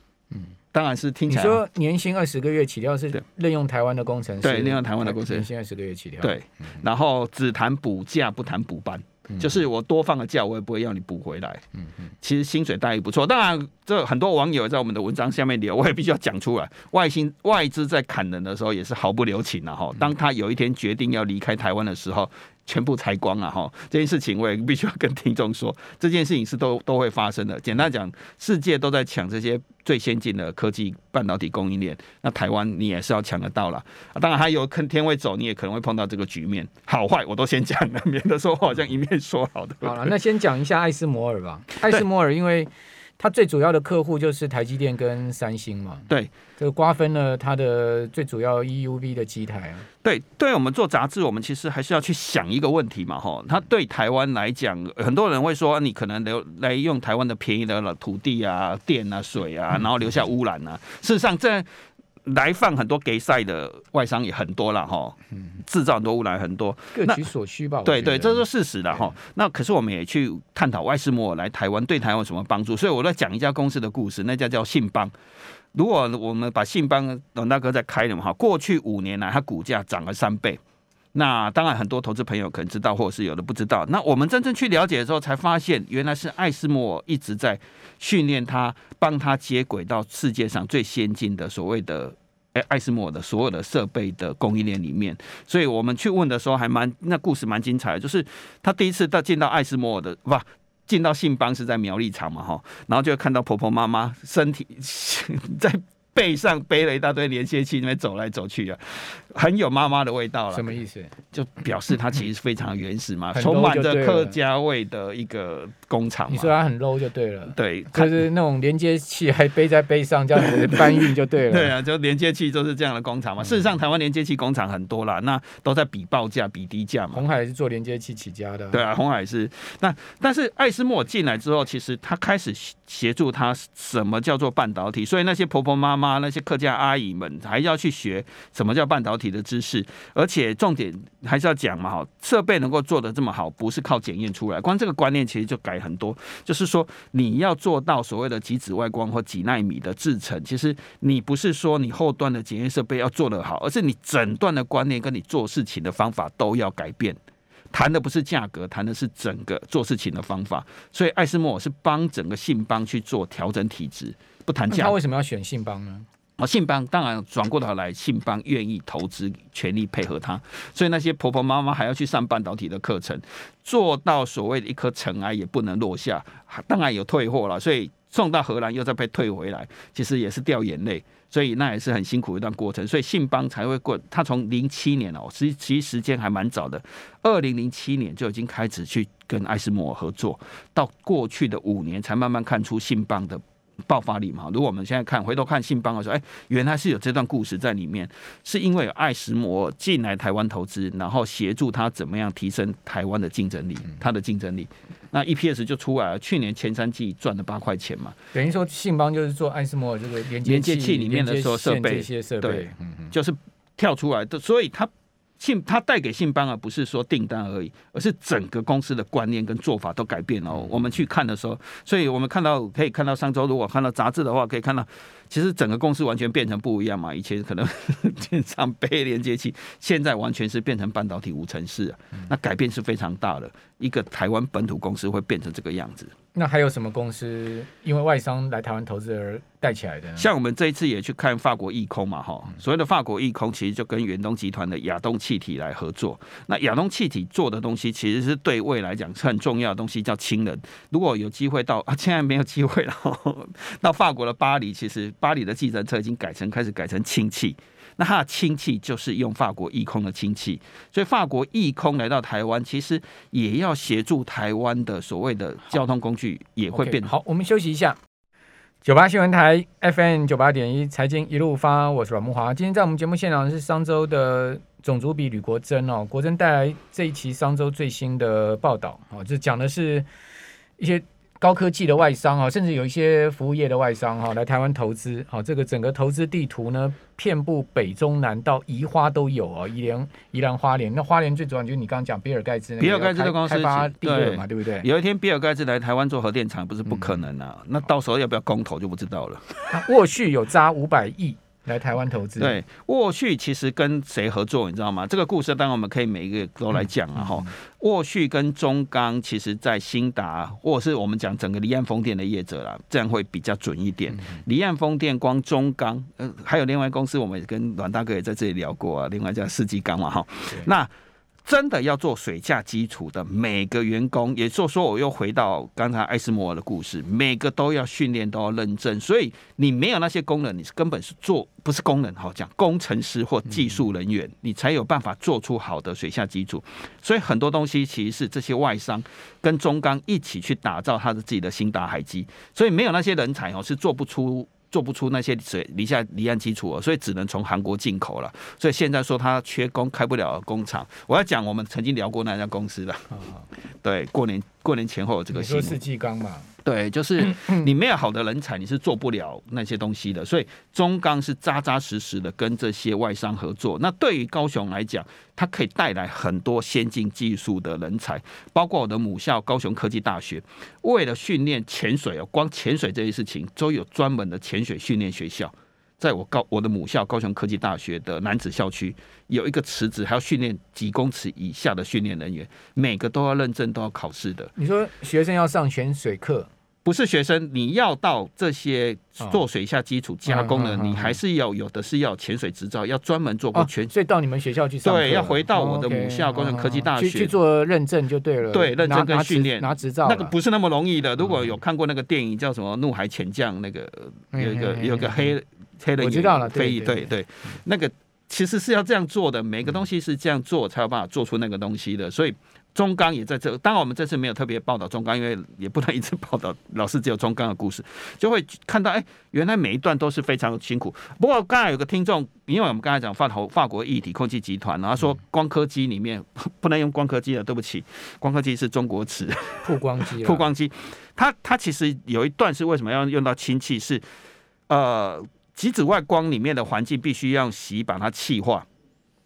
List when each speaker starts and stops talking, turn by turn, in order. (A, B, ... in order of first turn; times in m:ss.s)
0:00.7-0:01.6 A
0:01.3-0:06.4 B
0:04.4-0:05.5 A
0:06.2-0:11.6 A
0:12.2-0:40.1 A
0:39.8-0:49.9 B
0:50.0-1:01.7 A
1:02.2-1:07.2 A
1:06.9-1:08.4 B
1:07.8-1:15.1 A
1:15.7-1:20.6 A
1:21.1-1:50.8 A
1:50.5-1:51.2 B
1:51.3-1:56.5 A
1:53.3-1:54.4 B
1:56.3-2:01.8 B
1:57.5-1:58.2 A
2:00.4-2:07.2 A
2:07.1-2:08.8 B
2:08.7-2:37.2 A
2:37.7-2:45.0 A
2:44.7-2:46.1 B
2:46.4-3:28.2 A
3:28.3-3:33.1 B
3:30.4-3:56.1 A
3:56.4-4:00.3 B
4:00.2-4:27.1 A
4:26.7-4:28.0 B
4:28.8-4:40.1 B
4:40.8-4:54.9 B
4:52.8-4:59.8 A
4:59.7-5:02.6 B
5:02.4-5:20.9 A
5:21.5-5:55.8 A
5:53.2-5:53.4 B
5:55.3-5:56.5 B
5:56.6-6:24.5 A
6:24.6-6:26.5 B
6:26.8-6:33.9 A
6:30.3-6:31.2 B
6:33.5-6:40.4 B
6:34.8-6:37.3 A
6:38.5-7:14.0 A
6:44.3-6:45.3 B
6:46.0-6:47.1 B
7:09.6-7:10.5 B
7:14.7-7:18.7 A